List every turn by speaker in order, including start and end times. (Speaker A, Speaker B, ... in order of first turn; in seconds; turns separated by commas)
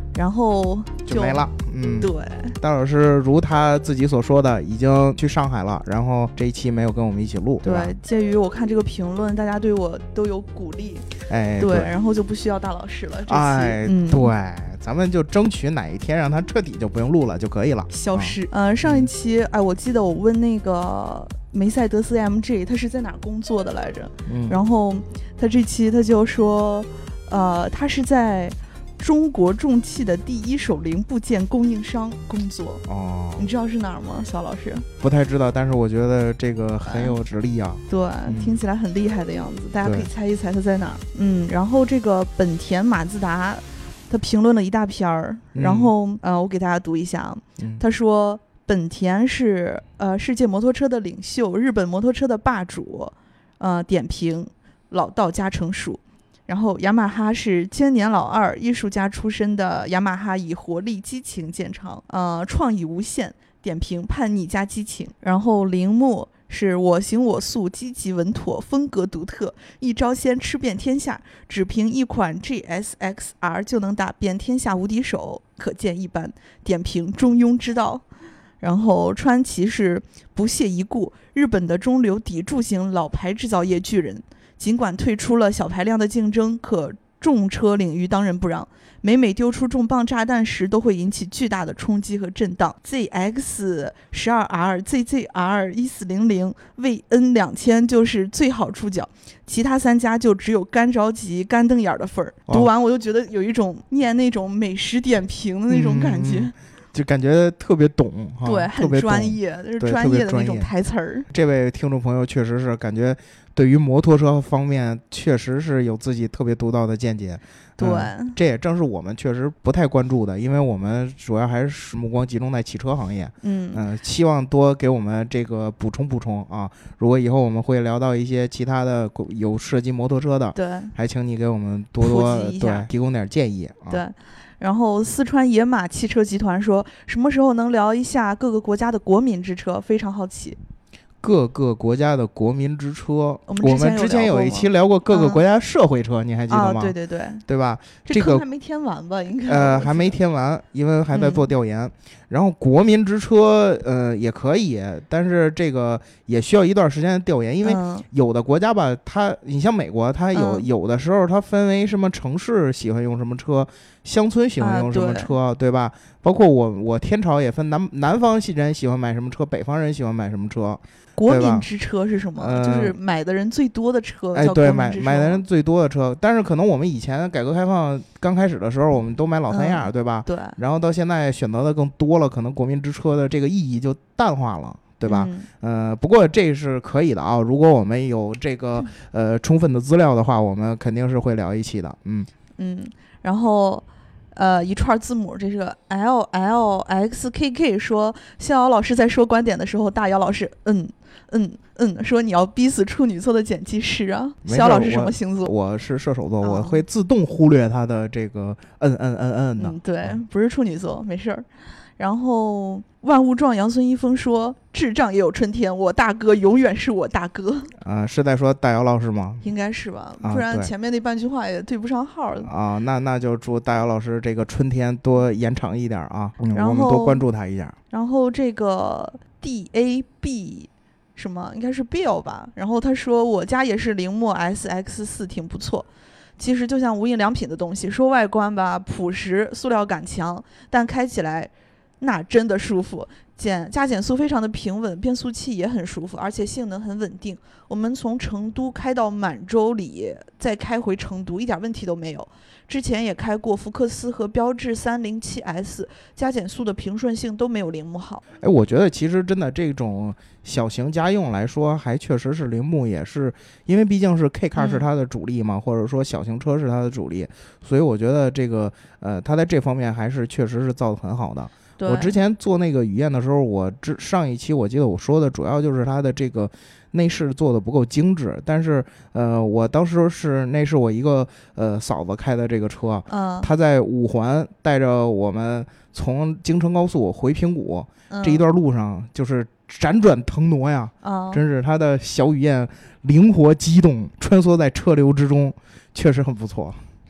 Speaker A: 0.1-1.4, Speaker B: 1.1-7.9, Speaker A: 2.0-2.6, Speaker A: 7.6-14.3, Speaker B: 11.3-11.9, Speaker B: 13.3-19.1, Speaker A: 17.9-32.8, Speaker B: 24.3-24.6, Speaker B: 32.9-33.5, Speaker A: 33.4-34.9, Speaker B: 35.0-38.6, Speaker A: 36.8-37.1, Speaker A: 37.9-78.0, Speaker B: 39.8-40.1, Speaker B: 45.5-45.9, Speaker B: 47.6-47.8, Speaker A: 78.6-106.5, Speaker B: 105.7-110.7, Speaker A: 108.4-111.3, Speaker B: 111.3-134.0, Speaker A: 117.8-118.4, Speaker A: 123.4-123.8, Speaker A: 130.5-130.9, Speaker A: 132.0-132.9, Speaker A: 133.9-140.6, Speaker B: 141.2-146.9, Speaker A: 143.5-145.4, Speaker A: 146.5-147.4, Speaker B: 147.5-148.4, Speaker A: 148.0-150.2, Speaker B: 149.4-171.7, Speaker A: 151.1-151.5, Speaker A: 157.6-158.0, Speaker A: 160.3-160.7, Speaker A: 164.6-165.3, Speaker A: 171.2-175.4, Speaker B: 172.3-172.9, Speaker B: 174.3-192.3, Speaker A: 179.5-180.6, Speaker A: 185.1-185.5, Speaker A: 192.6-205.5, Speaker B: 204.4-210.2, Speaker A: 206.4-206.8, Speaker A: 209.6-211.4, Speaker A: 212.0-217.7, Speaker B: 217.8-219.4, Speaker A: 219.4-222.5, Speaker B: 220.2-220.7, Speaker B: 222.4-227.8, Speaker A: 226.5-227.2, Speaker A: 227.9-258.2, Speaker B: 258.4-296.8, Speaker A: 264.5-264.9, Speaker A: 271.8-272.1, Speaker A: 283.1-283.5, Speaker A: 288.1-288.4, Speaker A: 291.0-291.4